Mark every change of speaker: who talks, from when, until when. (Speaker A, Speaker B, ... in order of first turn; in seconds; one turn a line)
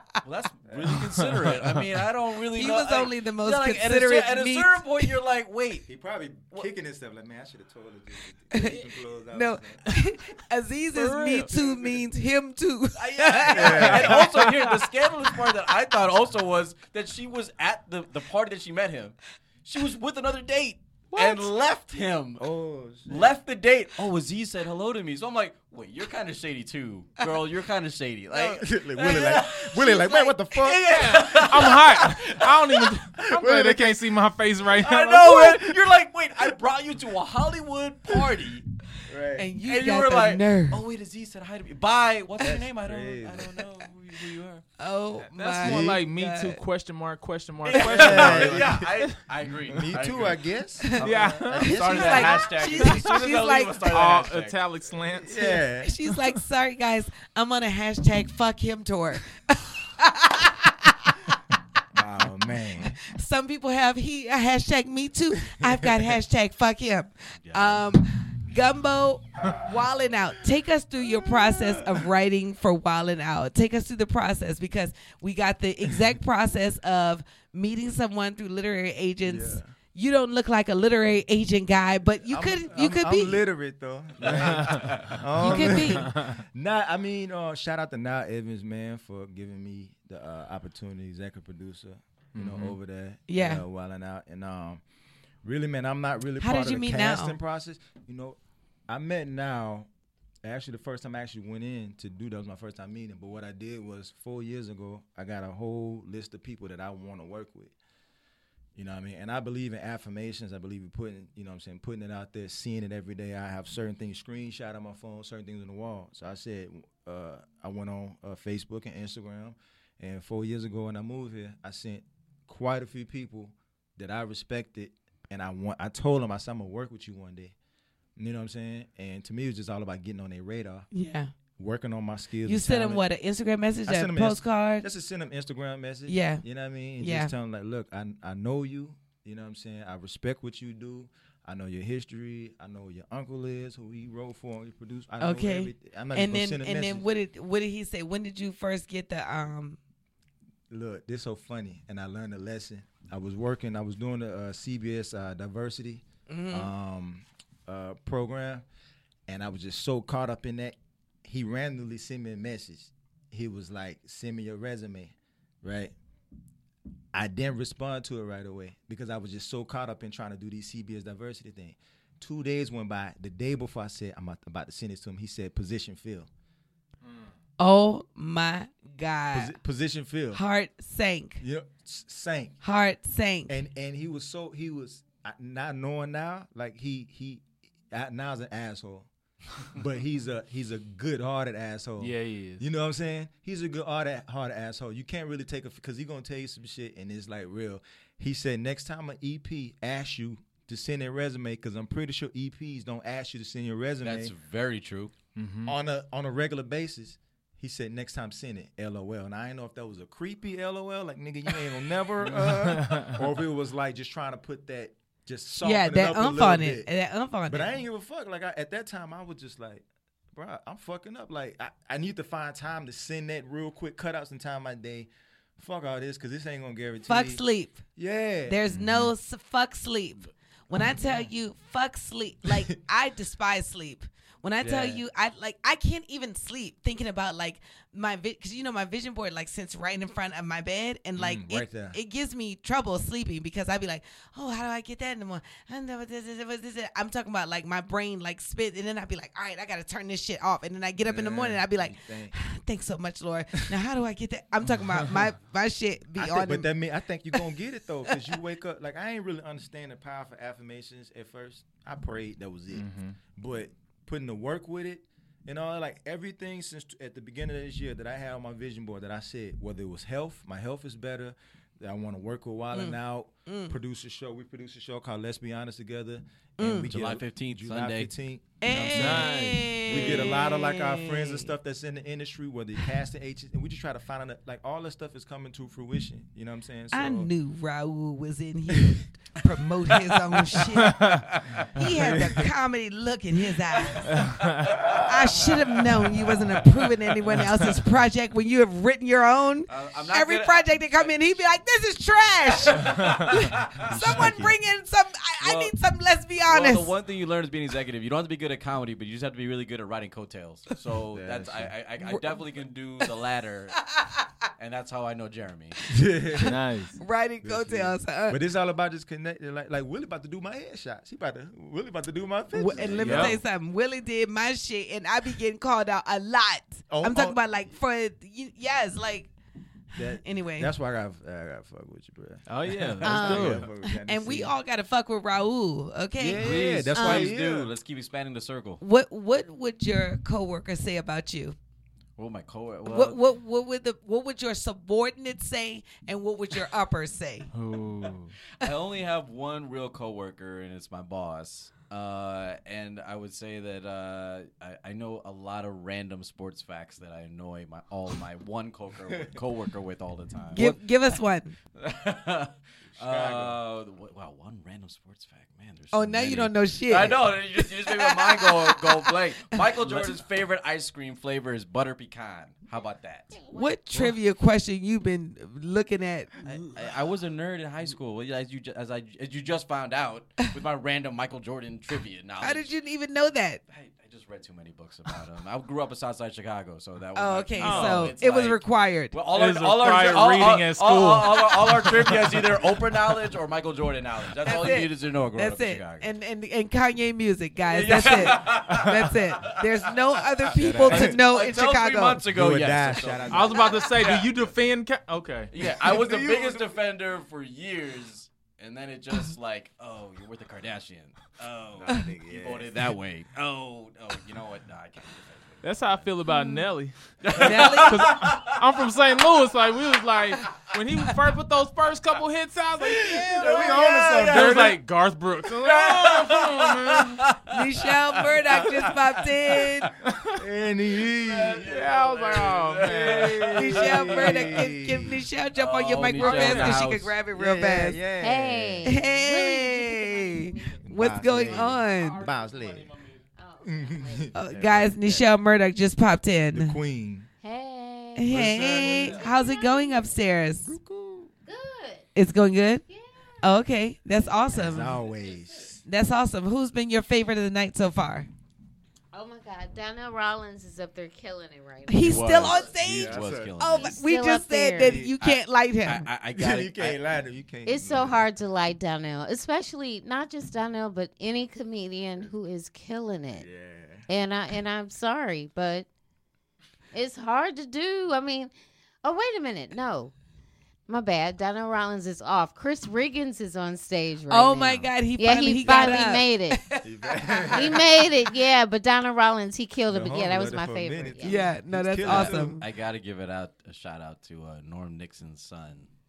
Speaker A: 0.2-5.8
Speaker B: 0.7-1.4
Speaker C: 2.5-5.1
Speaker B: 5.8-9.9
Speaker C: 8.5-14.0
Speaker D: 11.0-11.5
Speaker A: 11.1-11.9
Speaker A: 12.9-22.4
Speaker B: 13.5-14.4
Speaker D: 13.9-14.6
Speaker D: 21.1-21.5
Speaker B: 22.4-23.4
Speaker A: 23.1-32.9
Speaker B: 28.3-31.1
Speaker D: 30.9-35.6
Speaker B: 33.1-34.0
Speaker A: 34.7-38.6
Speaker B: 39.1-39.5
Speaker C: 39.4-40.8
Speaker A: 39.6-44.6
Speaker B: 42.4-43.6
Speaker C: 44.8-46.6
Speaker D: 45.4-49.1
Speaker B: 45.6-46.0
Speaker A: 47.6-54.6
Speaker B: 47.7-48.9
Speaker B: 49.7-51.9
Speaker C: 50.8-53.8
Speaker D: 51.0-53.2
Speaker D: 53.9-55.6
Speaker B: 55.1-55.9
Speaker C: 55.8-61.2
Speaker B: 61.9-63.0
Speaker C: 63.1-83.4
Speaker A: 67.4-67.9
Speaker B: 79.2-79.7
Speaker B: 82.3-94.8
Speaker A: 84.2-85.2
Speaker C: 85.4-86.1
Speaker D: 92.3-92.8
Speaker C: 93.3-93.6
Speaker B: 95.4-99.9
Speaker C: 96.4-97.4
Speaker B: 100.4-107.7
Speaker B: 108.8-127.5
Speaker B: 128.2-130.9
Speaker C: 130.9-131.3
Speaker B: 131.6-133.0
Speaker C: 132.4-134.9
Speaker B: 133.8-147.1
Speaker C: 136.1-136.4
Speaker C: 137.0-137.3
Speaker C: 145.2-149.8
Speaker B: 150.7-158.6
Speaker C: 156.3-156.7
Speaker B: 159.3-165.9
Speaker B: 167.1-176.3
Speaker C: 177.6-179.6
Speaker B: 179.3-180.4
Speaker C: 180.3-181.4
Speaker B: 181.4-182.6
Speaker C: 182.6-183.5
Speaker B: 183.5-189.1
Speaker B: 189.7-204.3
Speaker D: 192.0-192.6
Speaker A: 204.0-205.1
Speaker D: 205.3-205.7
Speaker B: 205.6-216.9
Speaker D: 212.3-213.2
Speaker C: 215.6-217.7
Speaker B: 217.5-227.4
Speaker C: 227.1-227.8
Speaker B: 227.9-228.7
Speaker C: 228.4-256.8
Speaker D: 228.7-229.1
Speaker B: 230.8-231.3
Speaker B: 234.6-235.0
Speaker B: 241.2-242.0
Speaker B: 251.0-252.3
Speaker B: 256.2-279.2
Speaker D: 262.7-263.1
Speaker C: 272.7-273.8
Speaker C: 276.6-276.9
Speaker A: 276.9-278.1
Speaker C: 278.6-281.5
Speaker A: 278.6-279.3
Speaker D: 278.8-280.2
Speaker B: 279.8-287.3
Speaker C: 286.9-306.9
Speaker D: 290.9-291.2
Speaker B: 291.9-292.5
Speaker D: 294.2-294.6
Speaker A: 294.7-295.0
Speaker A: 299.7-301.5
Speaker A: 302.4-304.4
Speaker B: 304.1-304.5
Speaker A: 305.4-305.7
Speaker A: 306.4-313.8
Speaker B: 311.1-311.7
Speaker C: 312.0-312.5
Speaker C: 313.9-314.3
Speaker A: 314.6-315.8
Speaker B: 315.8-316.6
Speaker D: 316.4-317.0
Speaker C: 317.0-318.4
Speaker B: 317.4-323.4
Speaker C: 322.5-329.3
Speaker D: 322.9-323.4
Speaker B: 326.9-327.4
Speaker B: 329.9-334.5
Speaker C: 330.0-330.7
Speaker D: 332.5-333.7
Speaker C: 333.0-337.3
Speaker B: 336.2-337.7
Speaker A: 336.4-338.8
Speaker C: 338.8-341.6
Speaker A: 342.2-343.2
Speaker C: 342.9-347.5
Speaker D: 347.5-348.3
Speaker A: 348.6-360.8
Speaker B: 359.1-359.4
Speaker C: 360.5-361.6
Speaker A: 361.8-373.3
Speaker B: 363.0-363.6
Speaker C: 365.9-368.8
Speaker E: 373.3-373.7
Speaker C: 373.5-376.6
Speaker A: 376.4-382.7
Speaker C: 382.4-383.6
Speaker A: 383.7-396.1
Speaker C: 387.1-389.1
Speaker D: 387.6-388.2
Speaker D: 389.3-392.6
Speaker C: 394.4-402.2
Speaker A: 397.6-404.3
Speaker B: 400.5-401.2
Speaker B: 402.2-403.9
Speaker D: 403.3-405.5
Speaker A: 405.5-416.1
Speaker B: 405.6-406.8
Speaker B: 411.8-412.8
Speaker D: 415.6-416.9
Speaker C: 416.3-416.6
Speaker A: 417.2-418.7
Speaker C: 417.3-418.1
Speaker D: 417.6-427.2
Speaker B: 423.0-424.8
Speaker A: 423.2-424.8
Speaker A: 425.4-429.9
Speaker C: 427.5-429.9
Speaker D: 430.0-430.3
Speaker B: 430.4-431.7
Speaker A: 430.9-434.6
Speaker D: 431.6-433.6
Speaker B: 432.9-435.2
Speaker C: 433.5-438.0
Speaker A: 435.6-437.2
Speaker B: 436.3-436.8
Speaker B: 437.3-438.9
Speaker E: 438.2-440.9
Speaker C: 438.8-442.3
Speaker B: 440.8-442.9
Speaker E: 443.4-444.4
Speaker B: 443.6-445.2
Speaker C: 444.3-446.8
Speaker B: 446.5-447.3
Speaker E: 447.4-450.1
Speaker C: 448.1-450.7
Speaker B: 448.3-449.3
Speaker B: 450.6-451.3
Speaker E: 451.4-452.1
Speaker C: 452.1-452.8
Speaker E: 452.9-453.6
Speaker C: 453.4-455.0
Speaker B: 454.5-455.8
Speaker C: 455.9-458.3
Speaker E: 459.1-462.4
Speaker C: 461.9-466.1
Speaker A: 462.0-464.0
Speaker B: 462.7-463.5
Speaker E: 463.7-465.0
Speaker B: 464.8-465.1
Speaker A: 465.2-467.0
Speaker B: 466.3-468.2
Speaker E: 467.6-473.5
Speaker B: 473.4-474.0
Speaker E: 474.1-475.9
Speaker E: 476.9-478.5
Speaker E: 479.0-480.1
Speaker E: 480.9-486.7
Speaker C: 484.3-488.1
Speaker B: 485.6-486.2
Speaker B: 486.8-487.9
Speaker E: 487.5-491.5
Speaker B: 489.9-492.5
Speaker C: 491.2-492.6
Speaker A: 492.0-495.9